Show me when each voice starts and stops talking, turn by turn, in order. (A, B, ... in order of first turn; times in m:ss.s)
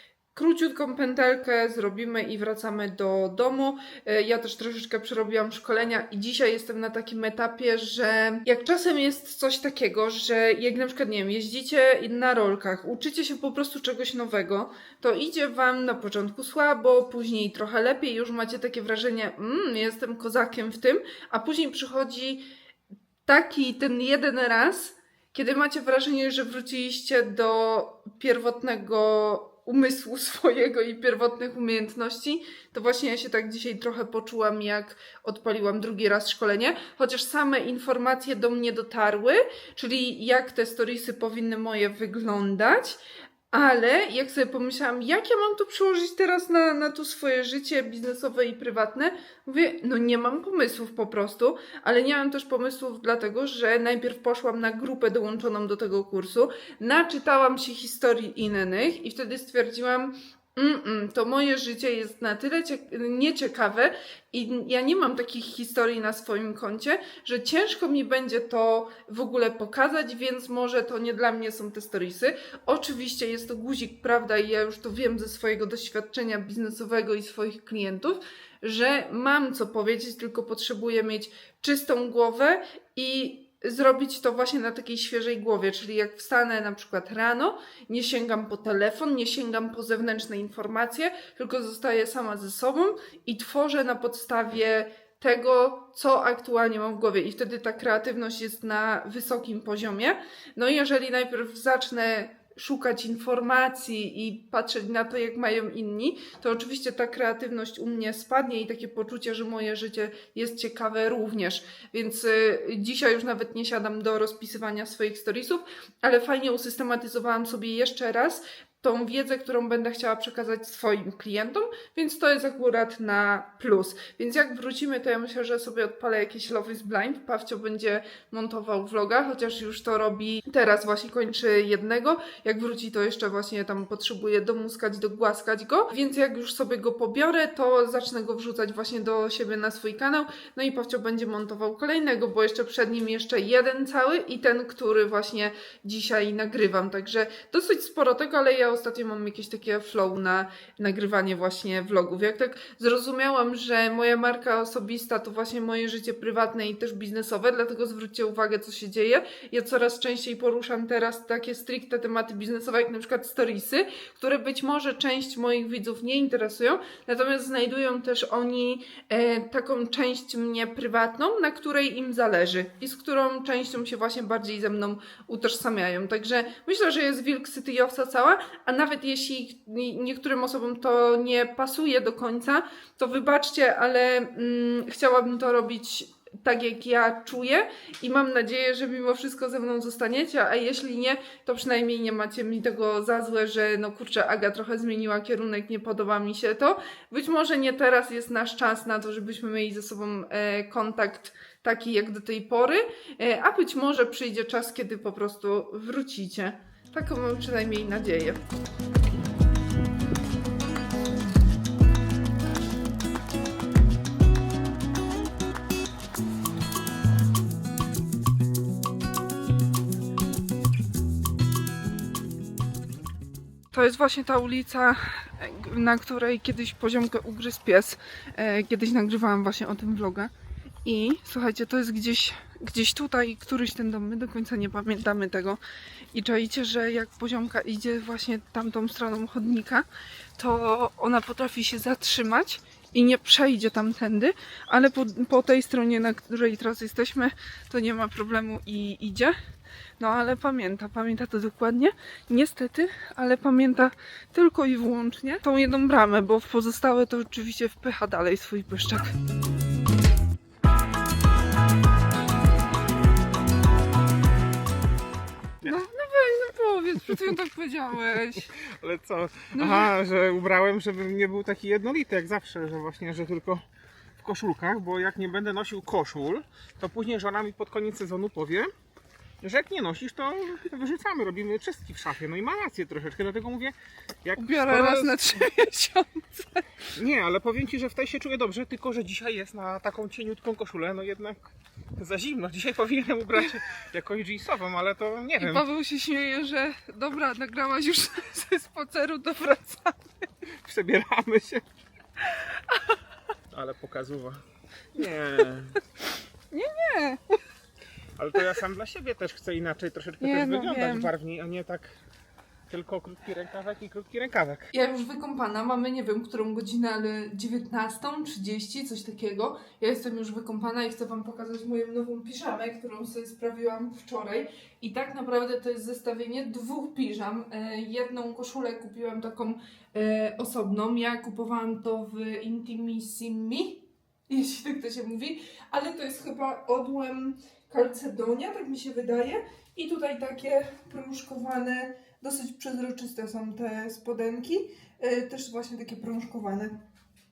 0:00.4-0:22.5 A
0:23.3-0:43.0 A
0:43.5-3:28.4 A
3:43.7-3:50.3 A
3:50.8-3:55.6 A
3:56.1-3:59.9 A
4:00.4-4:09.4 A
4:10.0-4:19.1 A
4:25.6-4:28.5 A
4:28.6-4:33.6 B
4:29.5-4:29.9 A
4:34.2-4:38.7 B
4:39.4-4:45.4 B
4:44.4-4:46.6 A
4:47.0-4:51.4 B
4:52.0-4:55.6 B
4:55.4-5:00.1 A
5:00.6-5:01.6 B
5:02.4-5:02.8 A
5:03.5-5:04.4 B
5:04.9-5:05.8 B
5:06.5-5:07.4 A
5:08.2-5:11.9 B
5:10.2-5:11.1 A
5:12.7-5:14.7 B
5:14.7-5:46.7 A